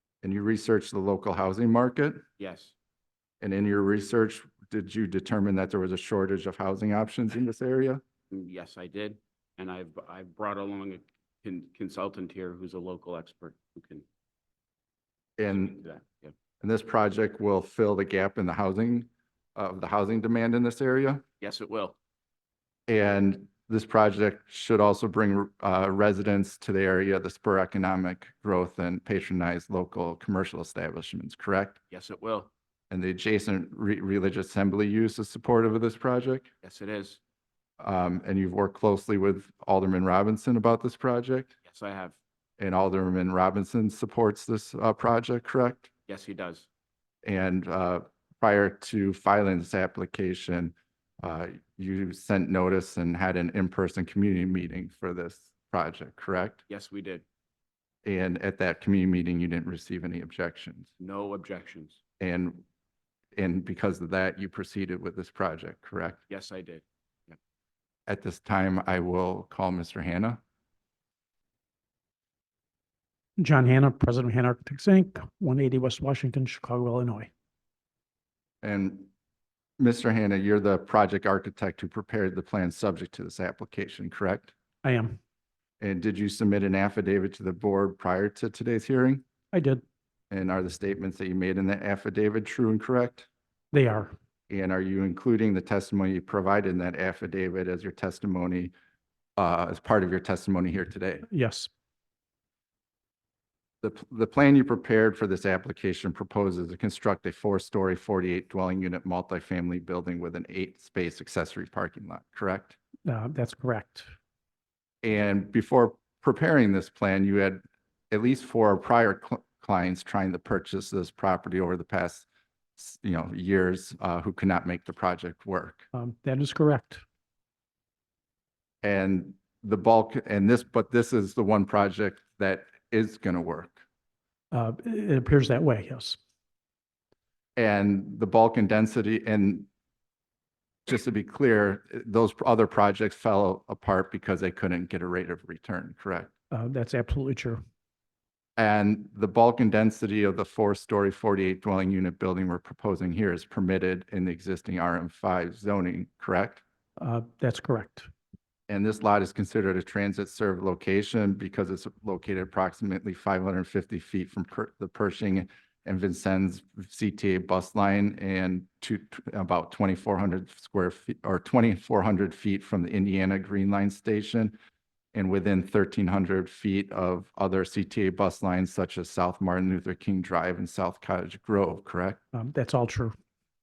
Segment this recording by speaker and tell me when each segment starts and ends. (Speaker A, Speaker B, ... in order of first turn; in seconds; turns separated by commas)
Speaker A: 0.2-2.2, Speaker B: 2.4-2.7, Speaker A: 3.4-8.0, Speaker B: 8.3-14.1, Speaker A: 15.4-15.8, Speaker B: 15.5-16.3, Speaker A: 16.6-21.2, Speaker B: 21.4-21.9, Speaker A: 22.9-31.8, Speaker B: 31.9-32.5, Speaker A: 32.9-36.5, Speaker B: 36.6-37.2, Speaker A: 37.8-41.5, Speaker B: 41.6-42.2, Speaker A: 42.6-45.9, Speaker B: 46.1-46.7, Speaker A: 47.2-56.6, Speaker B: 56.7-57.2, Speaker A: 58.0-60.9, Speaker B: 61.0-62.0, Speaker A: 62.2-62.6, Speaker A: 63.4-66.2, Speaker B: 66.3-67.3, Speaker A: 68.1-70.4, Speaker C: 73.4-77.3, Speaker A: 78.6-79.1, Speaker A: 79.8-84.5, Speaker C: 84.8-85.2, Speaker A: 85.8-89.2, Speaker C: 89.5-89.8, Speaker A: 90.3-93.3, Speaker C: 93.7-94.1, Speaker A: 94.5-98.7, Speaker A: 99.4-101.2, Speaker C: 101.3-101.7, Speaker A: 103.8-112.8, Speaker C: 113.0-114.1, Speaker A: 115.0-122.2, Speaker A: 122.8-125.8, Speaker C: 125.9-127.0, Speaker A: 128.8-133.8, Speaker C: 134.5-136.2, Speaker A: 137.6-139.7, Speaker A: 140.9-146.3, Speaker C: 146.5-147.6, Speaker A: 148.6-156.6, Speaker C: 157.0-158.1, Speaker A: 158.7-174.6, Speaker A: 175.1-182.2, Speaker C: 182.3-183.2